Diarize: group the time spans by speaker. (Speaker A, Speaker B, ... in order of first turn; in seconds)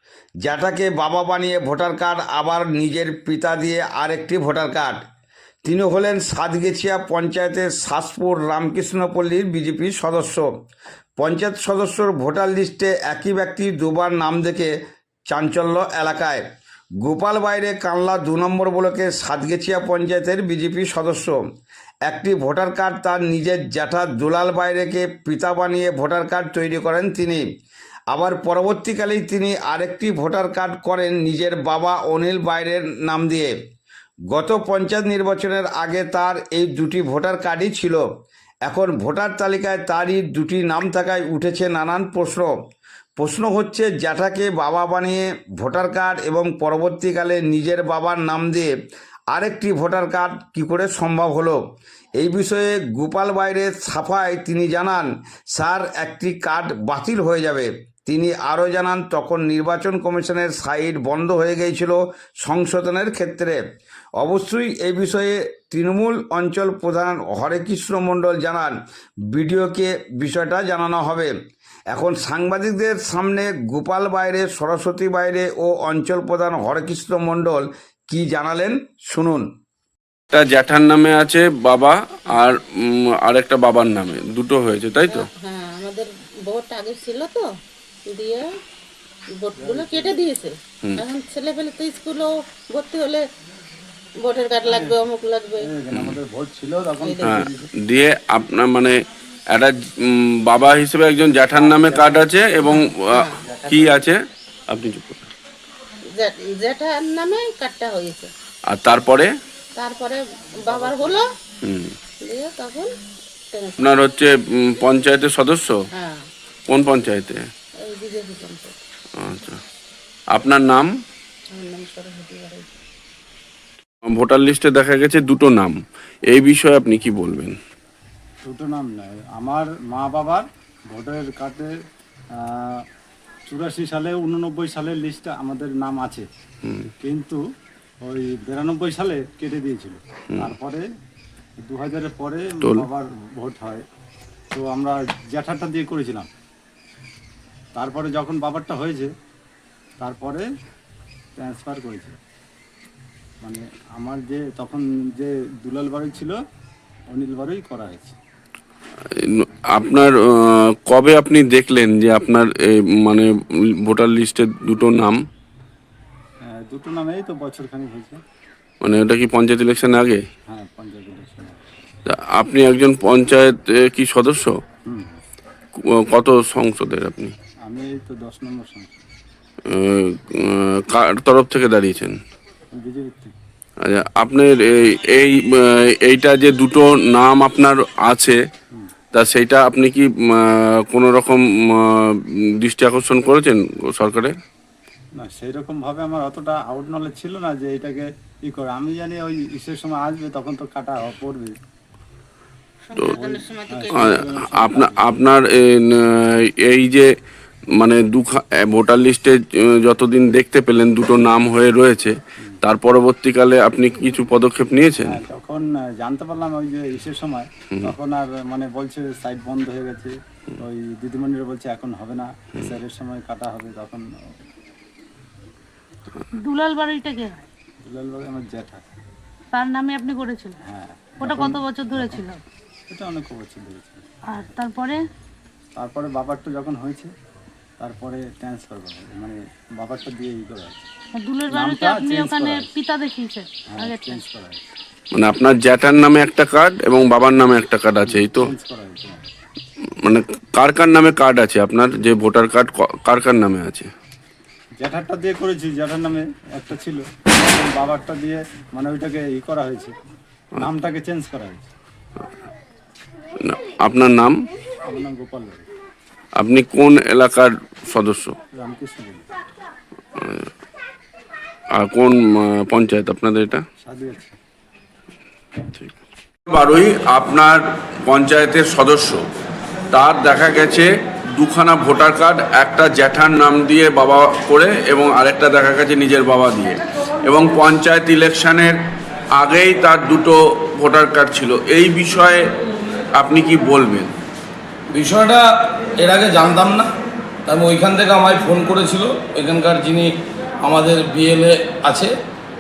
Speaker A: 0.4-5.0, 5.6-10.5, 11.2-14.7, 15.3-16.4, 17.0-21.4, 22.1-27.4, 28.1-33.5, 34.3-38.0, 38.7-42.5, 43.2-48.7, 49.3-51.6, 52.2-63.6, 64.2-68.8, 69.3-71.3, 71.9-79.5
Speaker B: 80.3-85.3, 95.9-96.2, 97.2-99.0, 99.5-105.3, 108.7-109.3, 111.6-112.0, 113.8-115.8, 116.7-117.5, 119.2-119.6, 120.3-120.9, 124.0-127.6, 136.6-136.9, 159.1-165.2, 168.8-170.2, 172.1-174.6, 175.8-177.3, 179.7-182.2, 183.8-188.4, 189.1-194.3, 203.9-207.1, 207.8-215.2, 245.1-248.5, 250.0-253.9, 263.4-264.4, 266.4-268.4, 270.2-270.5, 271.8-273.6, 276.5-279.3, 279.9-288.8, 289.4-292.5, 293.1-294.1
Speaker C: 85.1-87.5, 88.1-88.5, 89.3-93.3, 94.2-95.7, 97.0-97.5, 102.6-103.4, 106.1-108.3, 109.8-111.3, 112.2-112.9, 113.5-113.8, 115.9-116.3, 117.8-118.8, 121.5-122.7, 202.8-204.1
Speaker D: 89.6-90.2, 94.7-95.0, 95.6-97.7, 101.5-102.3, 103.4-104.1, 110.7-111.2, 128.4-131.7, 132.4-132.8, 133.5-136.3, 137.0-137.4, 138.0-140.8, 141.6-143.8, 144.5-146.3, 147.8-149.1, 150.0-150.5, 151.4-152.2, 153.4-156.4, 157.1-158.2, 166.6-168.2, 170.5-171.7, 174.9-175.2, 177.7-178.9, 182.8-183.3, 195.2-201.5, 203.2-205.1, 215.1-224.1, 227.8-228.8, 230.7-232.2, 232.9-234.0, 235.8-237.1, 237.8-240.9, 241.5-242.7, 243.7-244.7, 248.1-249.2, 254.8-259.9, 260.6-261.7, 264.9-265.7, 268.6-269.2, 273.8-274.4
Speaker E: 226.3-227.5, 229.5-230.6, 231.2-232.4, 234.3-235.0, 241.1-244.2
Speaker F: 294.9-296.9, 297.5-300.1, 300.6-302.1